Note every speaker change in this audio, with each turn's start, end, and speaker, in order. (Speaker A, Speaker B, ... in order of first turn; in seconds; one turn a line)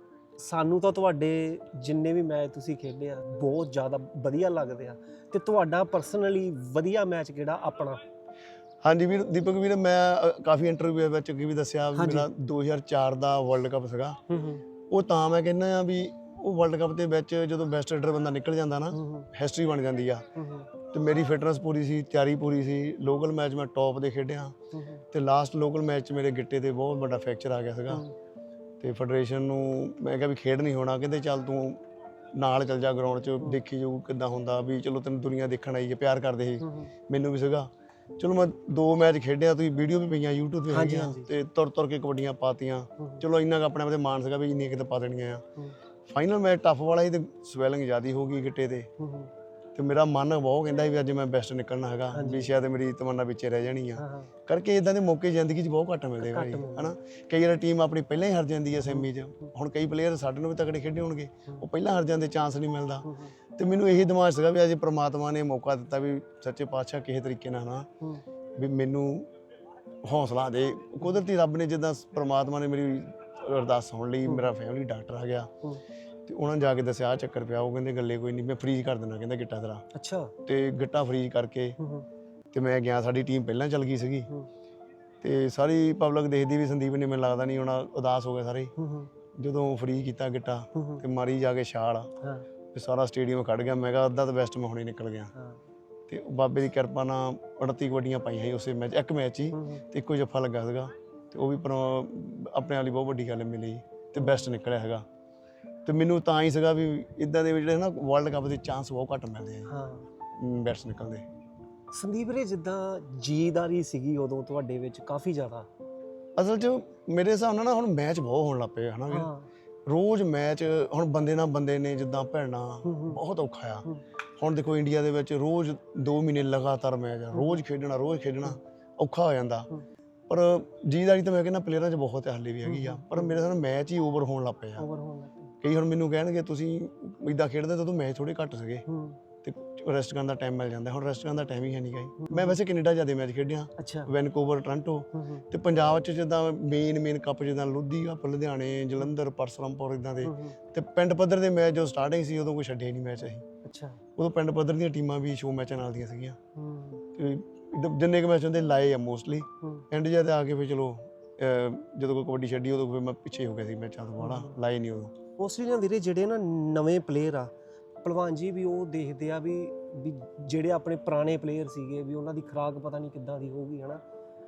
Speaker A: 0.4-8.0
Speaker B: 8.8-14.2
Speaker A: 11.9-12.3
Speaker A: 14.3-14.6
Speaker B: 14.9-20.2
Speaker A: 18.9-19.3
Speaker A: 20.4-20.7
Speaker B: 20.9-24.5
Speaker A: 24.7-25.0
Speaker B: 25.1-28.0
Speaker B: 28.8-31.8
Speaker B: 32.3-45.4
Speaker A: 36.6-36.9
Speaker A: 40.7-41.3
Speaker B: 46.1-48.9
Speaker A: 49.0-49.3
Speaker B: 49.7-67.9
Speaker A: 52.1-52.5
Speaker A: 54.0-54.3
Speaker A: 56.2-56.9
Speaker A: 58.8-59.5
Speaker A: 63.0-63.3
Speaker B: 68.6-69.3
Speaker B: 70.0-75.5
Speaker A: 74.3-74.5
Speaker B: 76.3-79.8
Speaker A: 79.9-80.3
Speaker B: 80.5-81.8
Speaker A: 81.8-82.0
Speaker B: 82.5-84.3
Speaker B: 85.2-88.7
Speaker A: 88.8-89.1
Speaker B: 89.4-92.1
Speaker A: 90.7-91.0
Speaker A: 92.2-92.5
Speaker B: 92.7-95.3
Speaker A: 95.3-95.6
Speaker B: 96.1-105.0
Speaker A: 99.5-99.8
Speaker A: 104.2-104.5
Speaker B: 105.8-109.7
Speaker A: 109.7-110.1
Speaker B: 110.4-111.2
Speaker A: 111.9-115.7
Speaker B: 116.4-119.3
Speaker A: 119.1-119.5
Speaker B: 119.9-123.8
Speaker A: 122.8-123.2
Speaker B: 124.4-129.7
Speaker A: 127.3-127.6
Speaker B: 130.3-134.8
Speaker A: 132.7-133.4
Speaker A: 134.8-135.5
Speaker B: 135.6-138.8
Speaker A: 138.9-139.2
Speaker B: 139.4-153.4
Speaker A: 142.2-142.6
Speaker A: 143.8-144.1
Speaker A: 145.1-145.4
Speaker A: 150.2-150.6
Speaker A: 153.6-154.0
Speaker B: 154.2-156.4
Speaker A: 156.5-157.0
Speaker B: 157.2-165.1
Speaker A: 159.6-159.8
Speaker A: 164.2-164.5
Speaker A: 165.4-167.5
Speaker A: 168.0-174.0